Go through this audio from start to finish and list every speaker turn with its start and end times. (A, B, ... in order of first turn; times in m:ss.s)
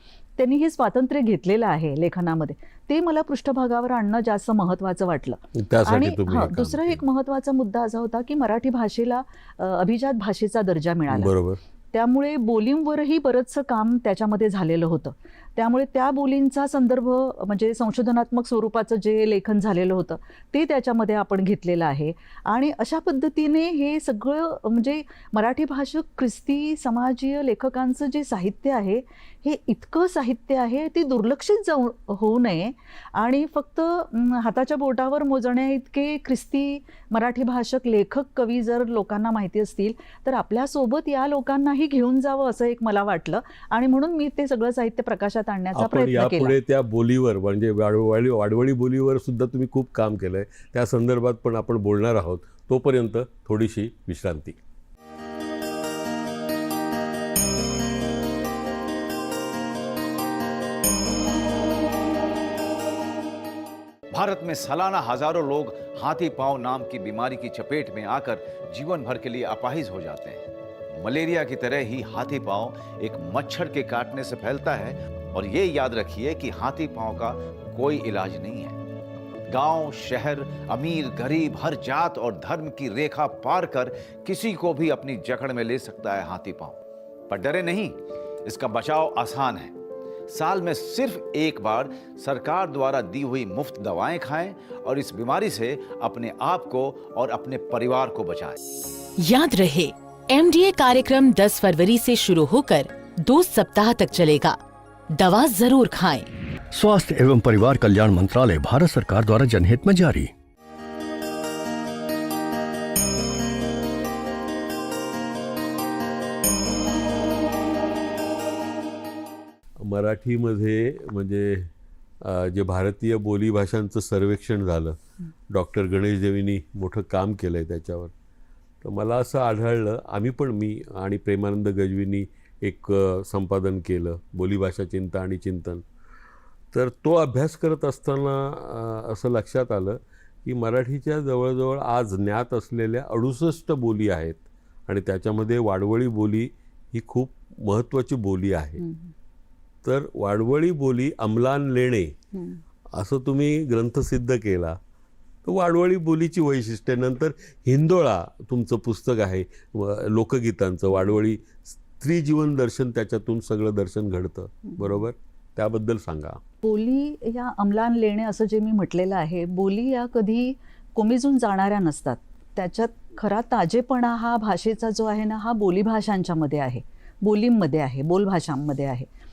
0:00.4-0:11.3 A
0:05.5-0:07.0 B
0:11.1-0:11.6 B
0:11.9-0:46.6 A
0:45.7-0:54.6 B
1:04.1-1:18.8 C
1:19.5-1:29.7 C
1:30.3-1:38.6 C
1:39.2-1:44.6 D
1:45.1-1:46.3 D
1:46.7-1:50.3 E
1:59.8-2:08.1 B
2:08.8-2:15.8 B
2:16.7-2:28.8 B
2:28.8-2:29.1 A
2:29.8-2:32.2 B
2:32.3-2:32.6 A
2:32.9-2:34.8 B
2:35.4-2:46.4 B
2:44.7-2:45.0 A
2:46.6-2:59.1 A